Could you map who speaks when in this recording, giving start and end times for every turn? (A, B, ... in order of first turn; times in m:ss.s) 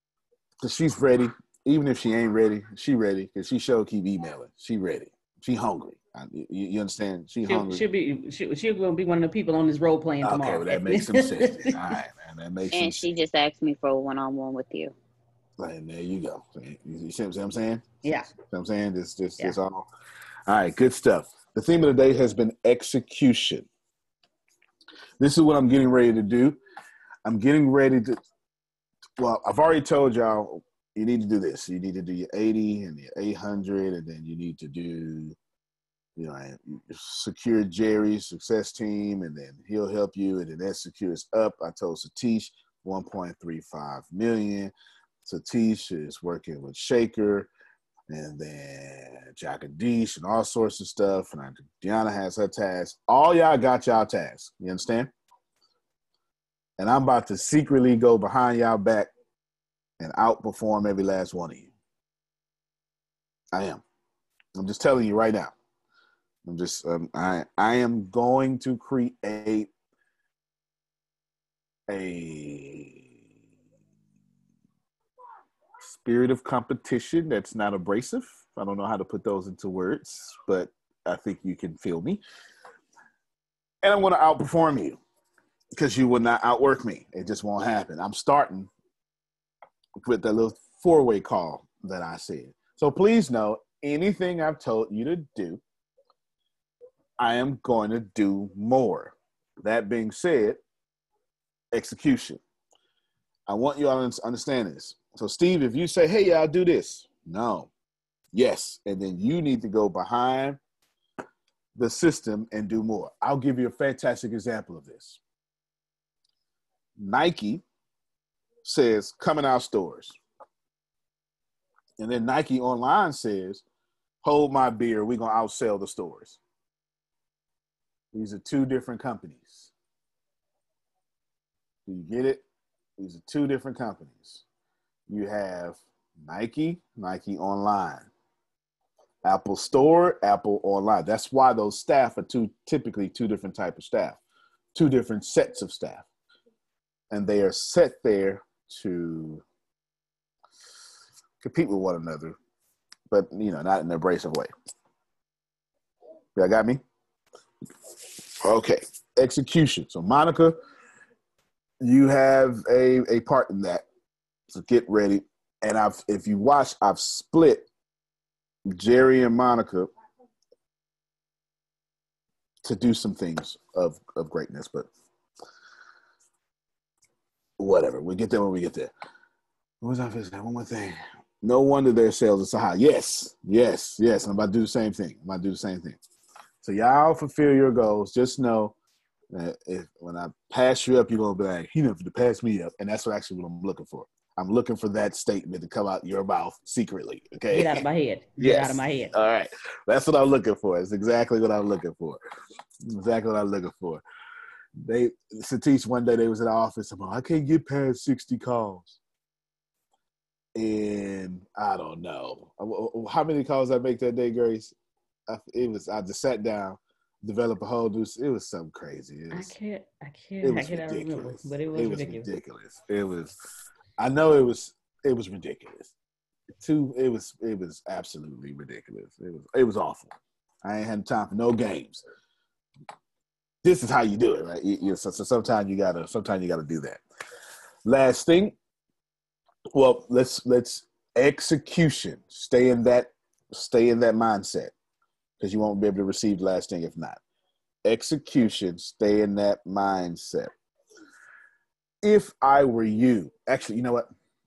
0:00.6-0:07.8 A
0:07.4-0:11.8 B
0:10.2-0:13.1 A
0:12.7-0:14.9 C
0:15.6-0:17.9 A
0:18.0-0:18.3 B
0:18.4-0:19.9 A
0:20.5-0:23.7 A
0:25.2-0:26.6 A
0:27.2-0:28.2 A
0:29.2-0:35.4 A
0:36.2-0:44.7 A
0:45.2-0:47.5 A
0:48.1-0:55.1 A
0:56.8-0:59.1 A
1:00.0-1:01.7 A
1:03.5-1:03.8 A
1:04.5-1:05.5 A
1:06.4-1:09.7 A
1:11.9-1:13.1 A
1:15.8-1:22.2 A
1:23.8-1:25.0 A
1:25.7-1:28.7 A
1:30.0-1:35.6 A
1:37.2-1:40.6 A
1:41.7-1:42.4 A
1:43.5-1:47.7 A
1:48.3-1:50.6 A
1:51.8-1:55.2 A
1:57.0-1:57.6 A
1:58.6-2:00.2 A
2:02.0-2:03.6 A
2:04.2-2:06.4 A
2:08.1-2:09.7 A
2:11.8-2:12.4 A
2:13.0-2:14.4 A
2:15.1-2:18.1 A
2:19.2-2:24.2 A
2:24.7-2:26.0 A
2:27.1-2:29.4 A
2:31.4-2:32.4 A
2:33.1-2:34.5 A
2:36.4-2:36.8 A
2:38.4-2:40.6 A
2:41.8-2:43.8 A
2:44.5-2:47.6 A
2:48.7-2:49.9 A
2:52.6-2:54.9 A
2:57.6-2:58.9 A
2:59.8-3:06.0 A
3:06.6-3:08.7 A
3:09.3-3:17.9 A
3:17.5-3:19.1 B
3:18.4-3:22.2 A
3:22.8-3:24.0 A
3:24.8-3:29.0 A
3:30.5-3:34.7 A
3:35.3-3:39.6 A
3:39.3-3:42.3 B
3:40.4-3:43.3 A
3:44.0-3:45.9 A
3:46.6-3:52.0 A
3:53.6-3:57.0 A
3:57.8-3:58.6 A
3:59.7-4:04.7 A
4:05.4-4:07.2 A
4:07.8-4:10.5 A
4:12.0-4:14.1 A